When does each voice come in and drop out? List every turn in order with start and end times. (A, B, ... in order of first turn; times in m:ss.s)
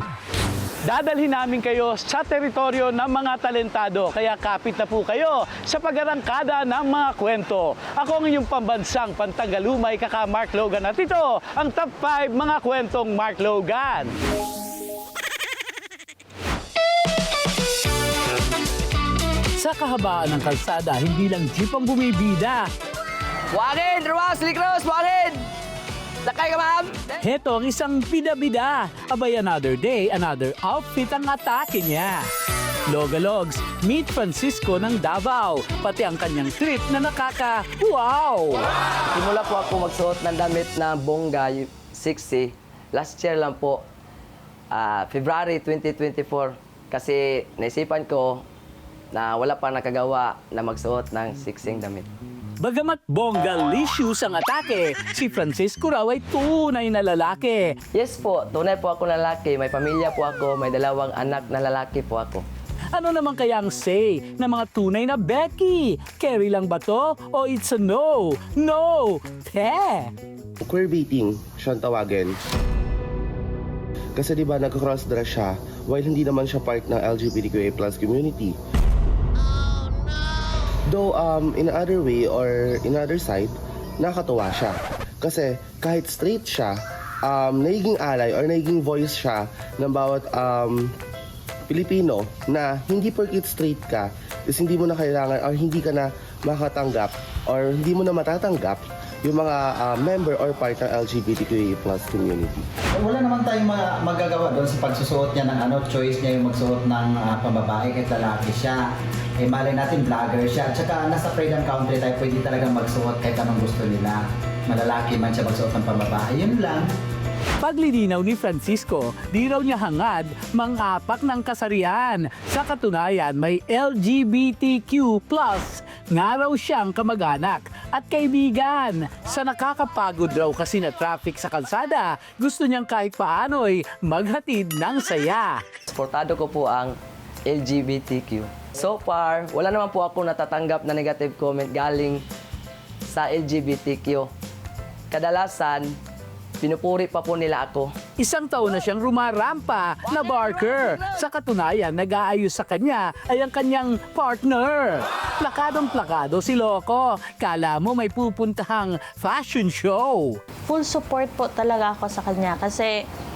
0:00.9-0:14.1 A
0:19.6-0:22.7 A
0:23.5-0:25.4 B
0:26.3-0:27.0 B
0:27.2-0:32.2 A
0:32.9-0:38.6 A
0:39.2-0:43.8 B
0:44.7-0:48.4 B
0:49.1-0:52.1 B
0:52.6-0:57.7 A
0:57.9-1:02.4 B
1:02.9-1:10.1 A
1:10.6-1:12.4 C
1:14.2-1:18.6 C
1:20.9-1:30.9 C
1:31.7-1:42.7 C
1:43.0-1:48.9 D
1:49.4-1:56.9 D
1:57.6-2:15.6 A
2:15.9-2:17.0 B
2:17.5-2:22.2 B
2:23.1-2:24.3 B
2:25.1-2:26.0 B
2:26.6-2:27.9 B
2:28.2-2:40.4 A
2:40.7-2:42.9 E